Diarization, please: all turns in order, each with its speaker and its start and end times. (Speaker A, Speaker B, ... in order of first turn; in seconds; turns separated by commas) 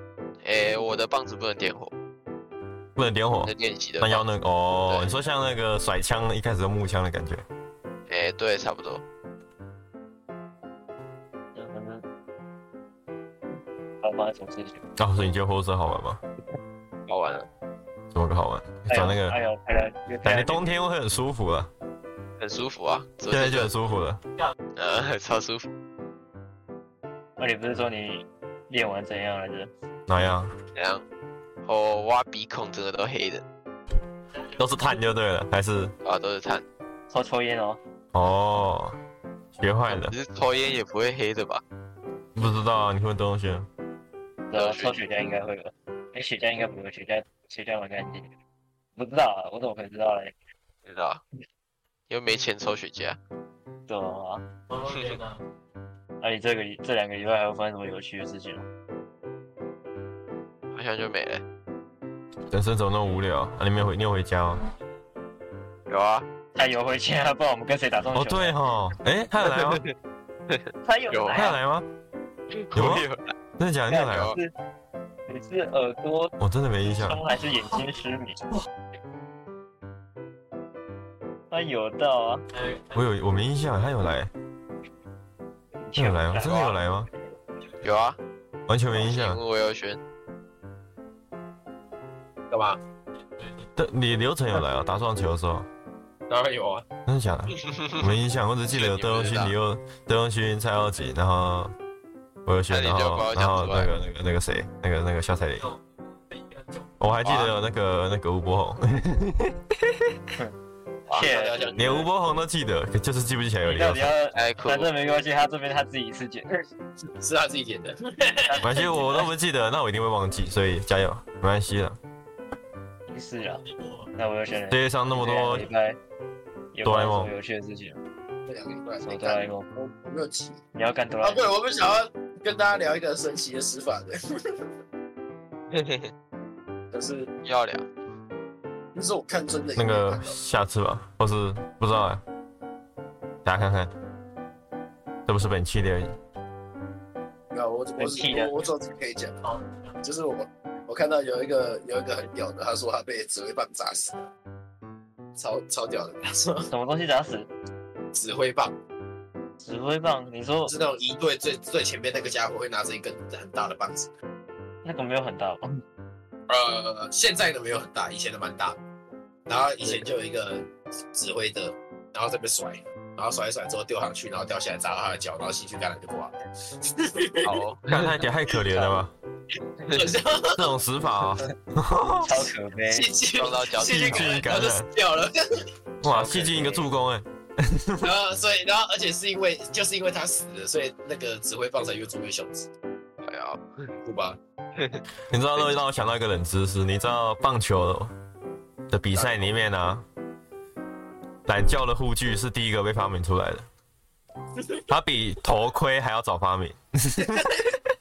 Speaker A: 0.4-1.9, Speaker B: 3.0-7.5, Speaker A: 3.4-4.2, Speaker A: 4.9-5.2, Speaker A: 8.1-9.0, Speaker C: 11.6-12.1, Speaker C: 14.0-14.8, Speaker B: 15.0-16.2, Speaker A: 17.1-17.5, Speaker B: 18.1-19.4, Speaker C: 18.9-20.6, Speaker B: 20.2-21.7, Speaker A: 22.4-23.7, Speaker B: 23.3-24.2, Speaker A: 24.8-25.7, Speaker C: 27.4-29.7, Speaker B: 30.1-30.5, Speaker A: 30.8-31.0, Speaker A: 31.6-33.4, Speaker B: 34.6-35.9, Speaker A: 36.0-36.6, Speaker C: 37.1-37.8, Speaker B: 38.1-39.0, Speaker B: 39.6-40.1, Speaker A: 39.9-41.6, Speaker B: 42.4-43.7, Speaker C: 44.5-48.3, Speaker A: 44.5-45.0, Speaker C: 49.0-50.4, Speaker A: 50.9-51.2, Speaker A: 52.1-53.2, Speaker C: 53.9-54.5, Speaker D: 54.7-55.4, Speaker C: 56.2-58.6, Speaker A: 60.7-61.4, Speaker B: 62.5-64.6, Speaker A: 65.9-66.2, Speaker C: 66.5-68.6, Speaker B: 68.1-69.8, Speaker A: 69.4-69.9, Speaker A: 70.5-71.4, Speaker C: 70.8-71.6, Speaker B: 71.3-71.9, Speaker A: 72.5-73.3, Speaker B: 72.8-74.4, Speaker C: 73.9-74.5, Speaker A: 74.0-74.4, Speaker C: 75.3-76.3, Speaker B: 76.4-77.2, Speaker C: 77.0-78.4, Speaker C: 81.5-82.4, Speaker D: 82.5-83.1, Speaker B: 83.0-84.3, Speaker C: 85.8-86.9, Speaker B: 86.0-87.1, Speaker A: 87.8-88.2, Speaker B: 88.7-89.4, Speaker A: 88.9-90.0, Speaker E: 92.5-92.8, Speaker D: 93.4-93.7, Speaker B: 93.8-95.7, Speaker E: 96.3-96.9, Speaker B: 97.1-101.7, Speaker A: 97.6-98.0, Speaker A: 98.7-99.5, Speaker B: 102.5-105.7, Speaker A: 102.7-103.9, Speaker D: 105.6-106.9, Speaker B: 107.0-110.0, Speaker A: 107.2-107.5, Speaker A: 111.1-111.3, Speaker C: 111.1-111.8, Speaker E: 111.1-112.1, Speaker B: 111.8-114.1, Speaker C: 113.6-116.6, Speaker A: 114.3-114.9, Speaker E: 117.1-118.8, Speaker C: 118.5-119.3, Speaker B: 118.6-122.0, Speaker C: 123.1-123.6, Speaker D: 123.6-124.1, Speaker C: 124.2-126.0, Speaker B: 124.7-125.7, Speaker C: 126.7-128.0, Speaker B: 126.8-127.3, Speaker E: 128.5-130.6, Speaker C: 129.1-129.7, Speaker C: 130.8-131.5, Speaker E: 131.2-134.6, Speaker A: 135.7-136.1, Speaker E: 136.9-137.3, Speaker A: 137.4-137.9, Speaker E: 138.9-140.4, Speaker B: 139.8-142.2, Speaker B: 143.4-143.9, Speaker B: 145.3-146.2, Speaker E: 147.5-149.4, Speaker C: 148.0-148.7, Speaker D: 149.4-150.0, Speaker E: 150.0-154.3, Speaker E: 155.4-156.7, Speaker C: 156.7-157.5, Speaker E: 158.1-158.7, Speaker C: 159.6-160.7, Speaker E: 160.7-164.1, Speaker C: 164.8-165.7, Speaker E: 166.5-168.8, Speaker E: 169.5-177.6, Speaker A: 177.4-178.1, Speaker B: 177.9-179.1, Speaker A: 179.9-180.2, Speaker E: 179.9-180.8, Speaker B: 180.5-182.5, Speaker C: 182.2-183.1, Speaker E: 182.9-185.7, Speaker A: 183.3-184.4, Speaker B: 183.8-184.9, Speaker B: 186.0-188.1, Speaker C: 186.1-186.9, Speaker E: 188.0-192.7, Speaker A: 193.2-193.9, Speaker E: 194.0-194.4, Speaker A: 194.8-195.0, Speaker B: 195.3-198.1, Speaker B: 198.9-200.1, Speaker E: 199.1-199.6, Speaker B: 201.5-203.7, Speaker B: 204.9-207.7, Speaker E: 207.2-207.6